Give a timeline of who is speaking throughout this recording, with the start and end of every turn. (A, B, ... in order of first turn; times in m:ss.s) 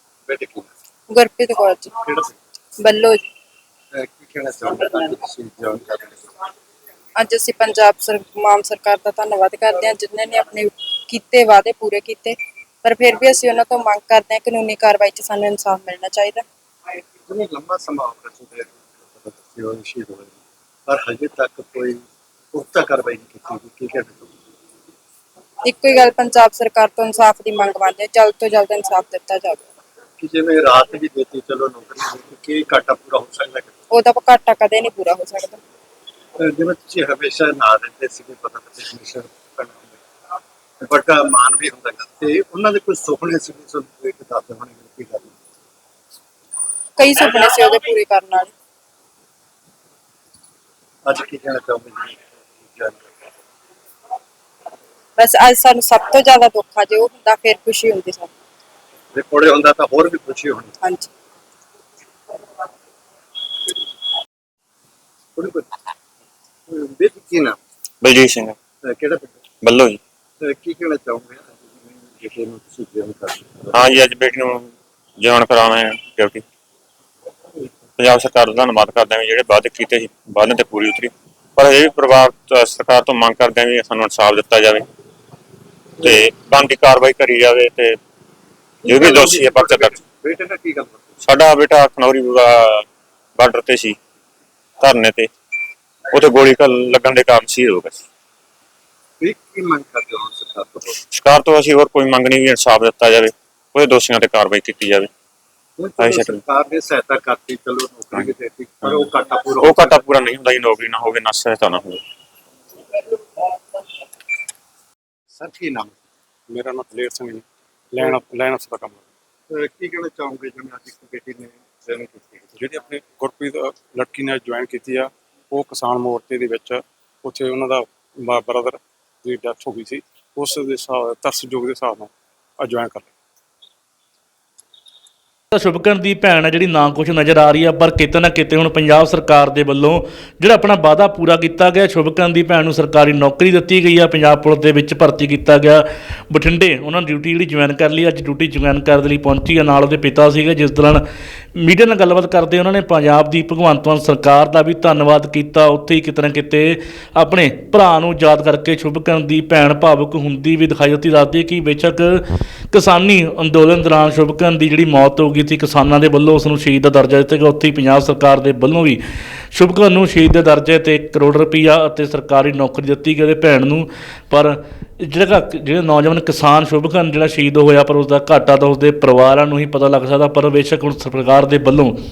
0:00.3-0:00.7 A
0:01.1-0:01.9 B
0:02.0-0:02.4 A
0:02.8-0:03.2 B
0:03.9-0:06.3 A
0:07.2-0:16.4 B
0:17.3-0:24.3 A
0:25.7-0:29.7 B
0:30.2-0:33.8 A
0:33.9-0:35.6 B
0:36.4-0:40.0 A
0:40.8-0:45.3 A
0:47.0-0:48.5 B
0:51.1-0:53.0 A
0:55.2-0:58.3 B
0:59.1-1:00.7 A
1:00.8-1:01.1 B
1:05.4-1:05.7 A
1:06.7-1:07.6 A
1:08.0-1:08.6 C
1:08.8-1:09.4 A
1:09.6-1:10.0 C
1:10.4-1:13.9 A
1:13.7-1:16.4 C
1:18.0-1:24.9 C
1:26.0-1:28.0 C
1:28.8-1:31.1 A
1:28.9-1:30.0 C
1:31.2-1:32.9 C
1:33.4-1:34.0 C
1:34.8-1:35.3 C
1:36.1-1:38.0 C
1:39.2-1:41.0 A
1:41.1-1:45.1 C
1:45.8-1:50.0 A
1:46.0-1:46.4 C
1:49.6-1:52.0 C
1:55.4-1:56.0 A
1:56.5-1:59.1 D
1:59.5-2:02.5 A
2:02.6-2:13.1 D
2:15.5-2:31.0 E
2:31.6-2:49.0 E
2:49.5-3:02.0 E